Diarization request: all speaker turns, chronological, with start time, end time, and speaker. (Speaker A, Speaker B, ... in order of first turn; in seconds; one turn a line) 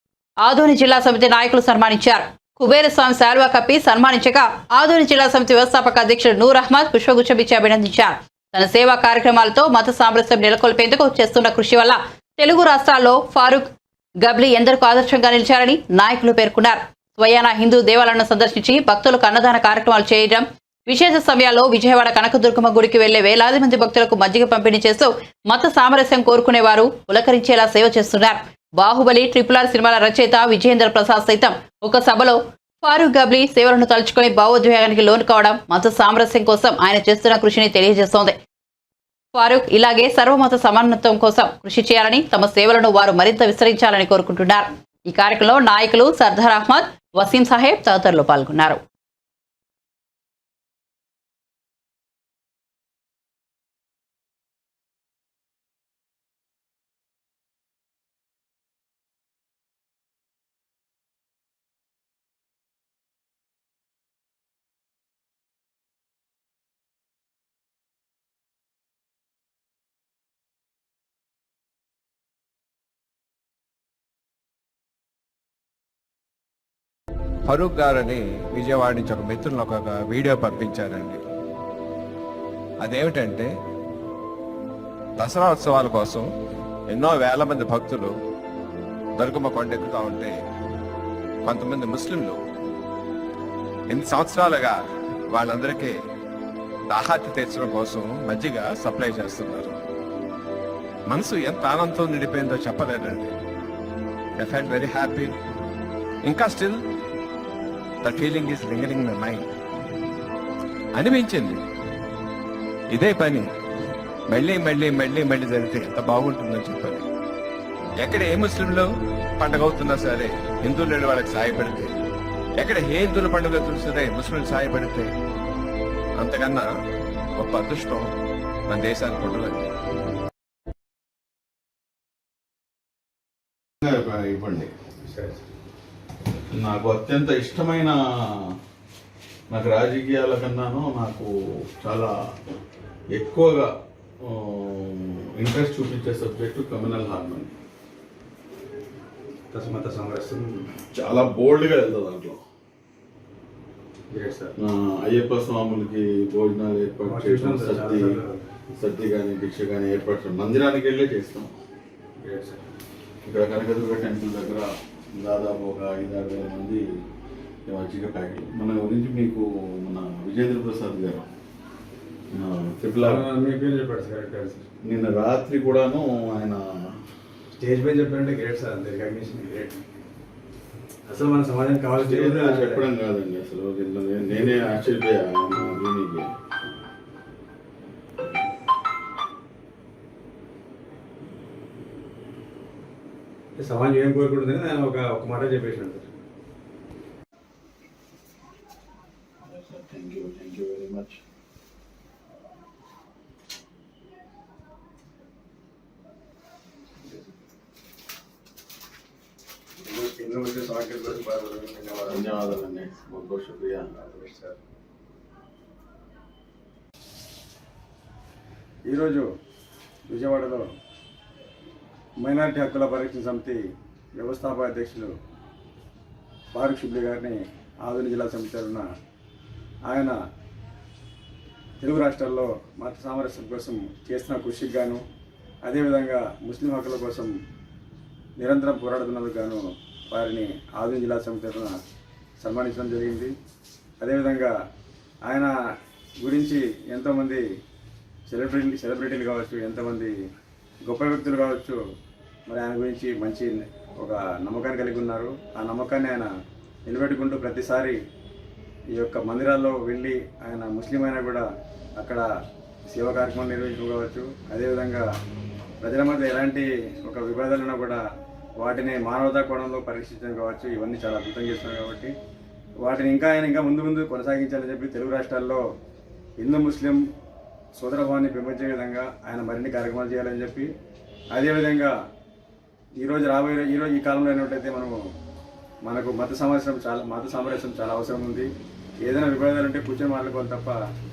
Speaker A: 0.4-13.7
Speaker A: 14.2-38.4
Speaker A: 39.3-48.8
Speaker B: 77.5-81.2
Speaker B: 82.8-83.5
Speaker B: 85.2-86.3
Speaker B: 86.9-88.1
Speaker B: 89.2-90.4
Speaker B: 91.4-92.4
Speaker B: 93.9-94.8
Speaker B: 95.3-96.0
Speaker B: 96.9-99.8
Speaker B: 101.1-103.3
Speaker B: 104.4-105.3
Speaker B: 106.2-106.8
Speaker B: 108.0-109.5
Speaker B: 111.0-111.6
Speaker B: 112.9-113.5
Speaker B: 114.3-117.1
Speaker B: 118.0-118.8
Speaker B: 119.4-121.9
Speaker B: 122.6-125.1
Speaker B: 126.2-126.7
Speaker B: 127.3-128.1
Speaker B: 128.7-129.7
Speaker C: 133.8-134.7
Speaker D: 135.1-135.4
Speaker C: 136.5-137.9
Speaker C: 139.5-142.1
Speaker C: 143.1-143.7
Speaker C: 144.2-147.5
Speaker D: 149.5-150.7
Speaker C: 150.9-152.4
Speaker D: 154.1-154.5
Speaker C: 154.6-158.1
Speaker D: 157.0-158.4
Speaker C: 158.7-161.5
Speaker D: 162.2-162.6
Speaker C: 163.2-166.8
Speaker C: 167.7-171.2
Speaker C: 172.3-173.2
Speaker D: 173.0-174.6
Speaker C: 174.8-176.8
Speaker D: 177.6-179.8
Speaker D: 181.1-182.8
Speaker C: 182.0-186.3
Speaker D: 184.3-184.7
Speaker D: 193.6-196.1
Speaker C: 199.4-201.2
Speaker D: 209.8-212.6
Speaker C: 212.1-213.9
Speaker D: 213.9-214.6
Speaker D: 218.9-219.2
Speaker D: 220.1-220.6
Speaker D: 222.2-223.6
Speaker D: 224.2-225.1
Speaker D: 226.5-228.8
Speaker D: 229.9-230.2
Speaker D: 231.8-235.0
Speaker D: 235.6-237.3
Speaker D: 238.4-241.7
Speaker D: 242.4-243.3
Speaker D: 244.0-244.5
Speaker D: 245.2-245.5
Speaker D: 246.2-247.4
Speaker D: 248.3-250.1
Speaker D: 250.8-251.8
Speaker D: 252.5-256.3
Speaker D: 256.9-258.0
Speaker D: 258.9-261.4
Speaker D: 262.0-262.2
Speaker D: 262.9-265.1
Speaker D: 265.8-268.0
Speaker D: 268.6-272.1
Speaker D: 272.8-275.6
Speaker D: 276.4-277.0
Speaker D: 277.7-280.7
Speaker D: 281.3-281.9
Speaker D: 283.0-285.0
Speaker D: 285.8-288.5
Speaker D: 289.0-290.8